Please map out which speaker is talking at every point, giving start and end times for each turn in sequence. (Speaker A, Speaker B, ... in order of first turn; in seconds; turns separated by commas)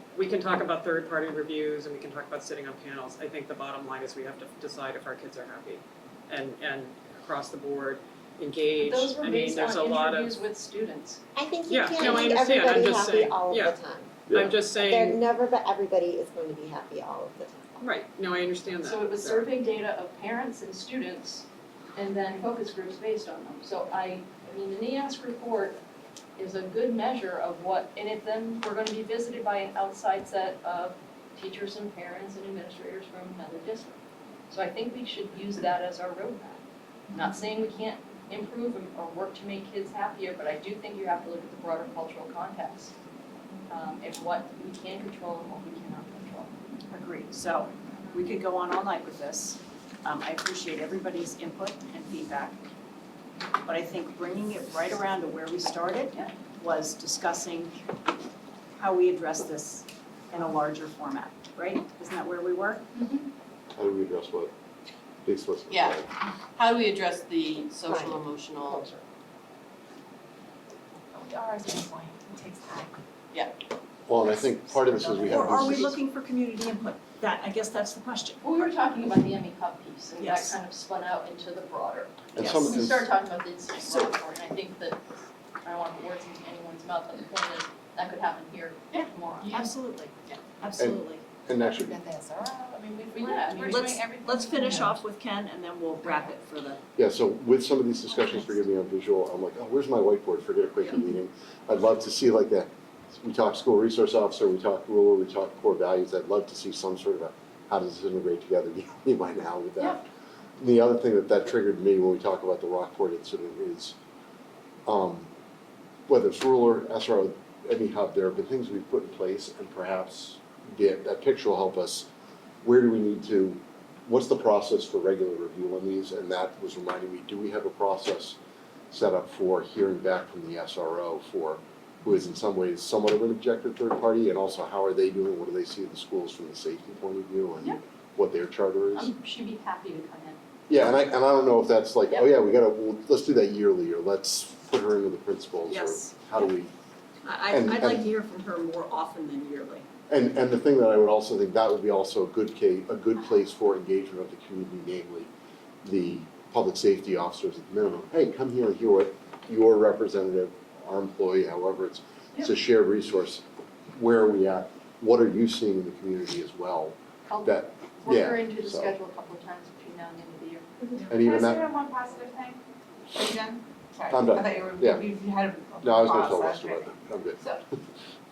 Speaker A: 0.2-10.4, Speaker B: 8.8-11.2, Speaker C: 11.3-17.7, Speaker A: 11.7-13.8, Speaker B: 11.9-12.4, Speaker A: 14.3-15.2, Speaker D: 14.3-14.6, Speaker A: 17.8-19.5, Speaker B: 18.8-25.8, Speaker B: 26.4-42.9, Speaker B: 43.7-46.5, Speaker E: 46.9-52.6, Speaker E: 53.6-57.8, Speaker E: 58.8-62.9, Speaker D: 63.8-64.5, Speaker D: 65.2-66.1, Speaker F: 65.7-69.0, Speaker C: 67.9-68.2, Speaker G: 71.1-73.0, Speaker D: 74.1-75.9, Speaker G: 74.9-75.8, Speaker E: 75.3-78.5, Speaker B: 78.4-85.0, Speaker E: 80.2-80.5, Speaker D: 82.3-83.1, Speaker E: 82.4-82.7, Speaker B: 85.6-89.6, Speaker E: 89.5-91.2, Speaker D: 90.8-92.0, Speaker G: 91.6-95.0, Speaker B: 93.1-93.9, Speaker E: 93.6-96.8, Speaker D: 97.0-110.0, Speaker D: 110.6-114.0, Speaker D: 114.9-115.3, Speaker D: 116.1-122.1, Speaker D: 122.6-128.4, Speaker D: 128.9-139.1, Speaker B: 138.9-140.4, Speaker D: 140.7-146.7, Speaker E: 145.7-146.5, Speaker E: 147.2-149.9, Speaker D: 147.5-148.1, Speaker D: 150.1-155.3, Speaker D: 155.8-163.4, Speaker D: 163.9-168.9, Speaker B: 167.3-171.3, Speaker G: 170.9-172.6, Speaker D: 171.1-171.7, Speaker G: 173.1-177.6, Speaker D: 174.1-175.1, Speaker D: 175.8-177.4